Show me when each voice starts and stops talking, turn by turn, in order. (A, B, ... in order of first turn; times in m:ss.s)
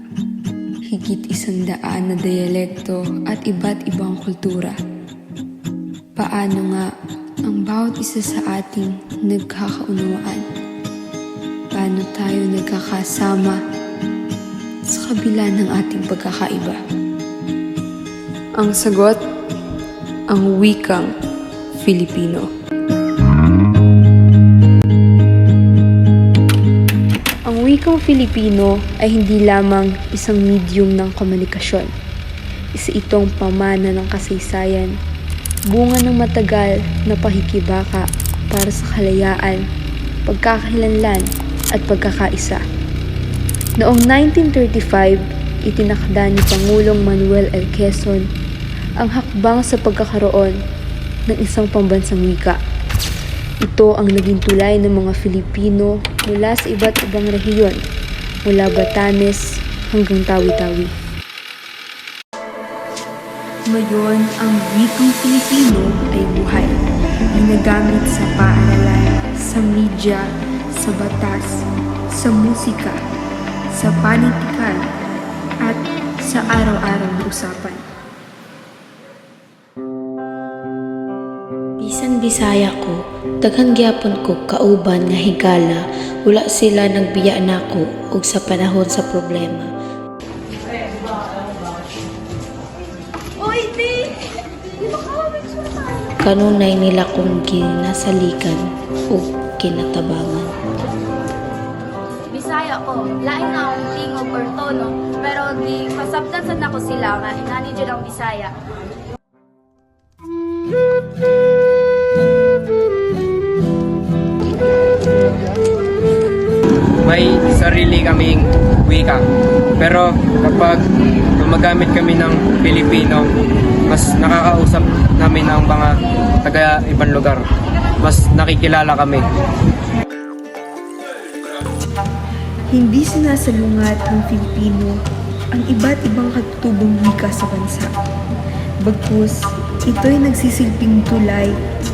0:00.9-0:04.8 A
0:06.2-0:06.9 A
0:07.4-0:10.4 A
0:11.7-0:13.6 A
0:14.9-0:16.8 A
0:18.6-0:19.2 A
0:20.3-0:21.1 A
0:21.8-0:22.5 A
0:27.4-0:31.9 A
0:32.7-0:34.9 A
0:35.7-0:39.6 A
0:40.3-0:42.6 A
0:43.8-0:48.3 A
0:49.0-0:50.6 A
0:51.3-0:52.6 A
0:53.6-0:57.8 A
0:58.4-1:00.9 A
1:03.7-1:06.8 A
1:07.3-1:11.5 A
1:12.1-1:13.0 A
1:13.7-1:14.8 A
1:15.6-1:17.8 A
1:21.8-1:29.7 B
1:33.4-1:34.2 C
1:34.9-1:35.9 C
1:36.2-1:40.5 B
1:42.3-1:48.5 C
1:57.0-1:59.2 D
1:59.8-2:00.8 D
2:01.4-2:03.3 D
2:03.9-2:07.4 D
2:08.0-2:09.2 D
2:12.7-2:15.0 A
2:15.5-2:17.9 A
2:18.8-2:21.5 A